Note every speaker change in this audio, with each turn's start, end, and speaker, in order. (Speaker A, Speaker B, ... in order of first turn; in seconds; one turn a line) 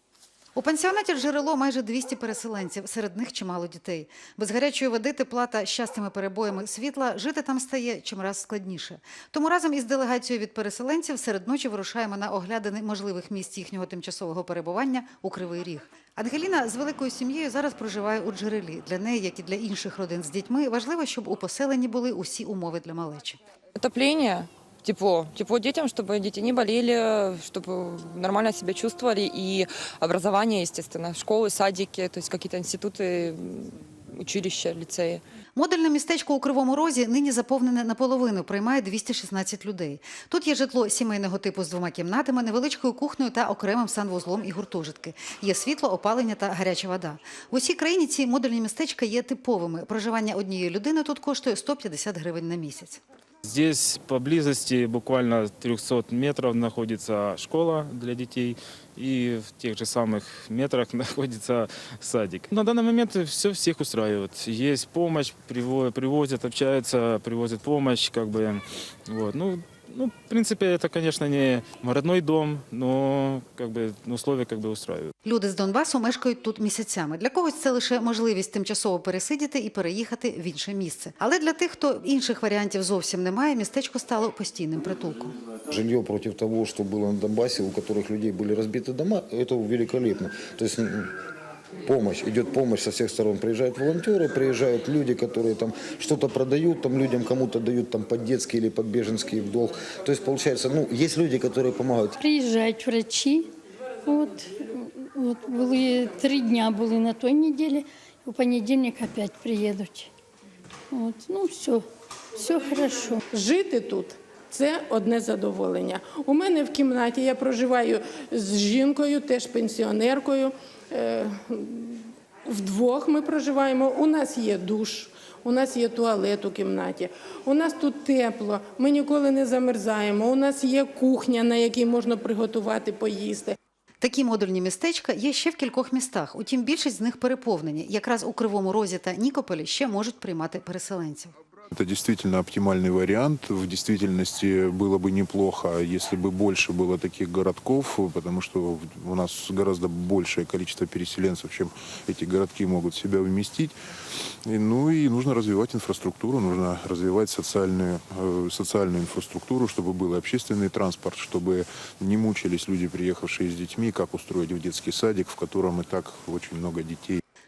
Speaker A: 0.6-23.4
Speaker B: 23.8-35.2
Speaker A: 35.5-53.0
Speaker C: 53.4-75.1
Speaker A: 75.2-85.3
Speaker D: 85.7-91.1
Speaker D: 91.8-102.2
Speaker E: 102.2-103.5
Speaker E: 104.0-110.1
Speaker E: 110.9-113.2
Speaker F: 113.3-133.6
Speaker A: 134.0-141.3
Speaker G: 141.7-153.7
Speaker G: 154.4-167.2